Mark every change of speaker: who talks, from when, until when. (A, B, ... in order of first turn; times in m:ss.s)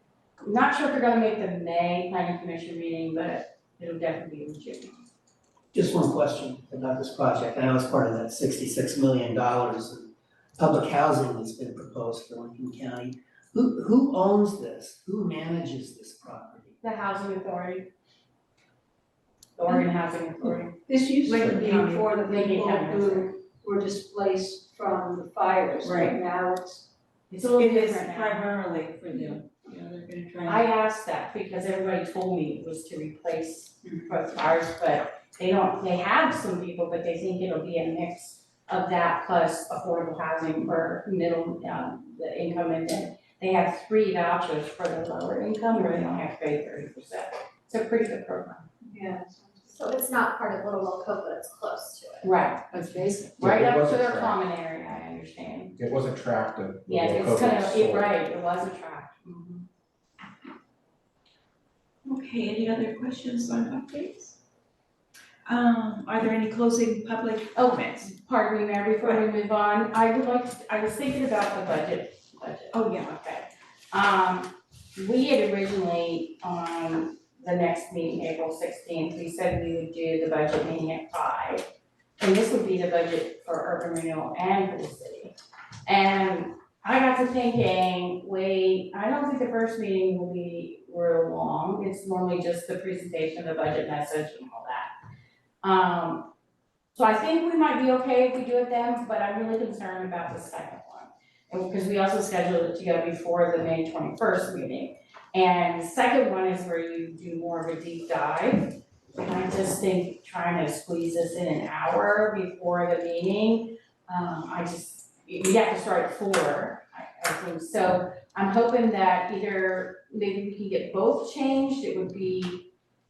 0:00.4-0:05.0 A
0:05.7-0:16.7 B
0:16.8-0:17.9 A
0:19.6-0:20.8 A
0:20.9-0:26.9 C
0:21.2-0:22.1 D
0:22.1-0:23.3 A
0:25.8-0:26.2 D
0:27.3-0:28.5 A
0:27.4-0:30.7 D
0:29.1-0:29.4 A
0:30.4-0:48.6 A
0:48.8-0:50.0 C
0:49.7-0:52.3 E
0:52.2-0:52.8 A
0:53.4-0:54.4 F
0:53.4-0:55.7 A
0:55.8-0:58.1 F
0:56.8-0:59.7 A
1:02.0-1:04.4 D
1:05.4-1:08.1 D
1:07.6-1:21.6 A
1:12.7-1:13.0 D
1:22.2-1:25.3 A
1:25.8-1:34.9 A
1:35.6-1:36.3 A
1:36.9-2:02.7 A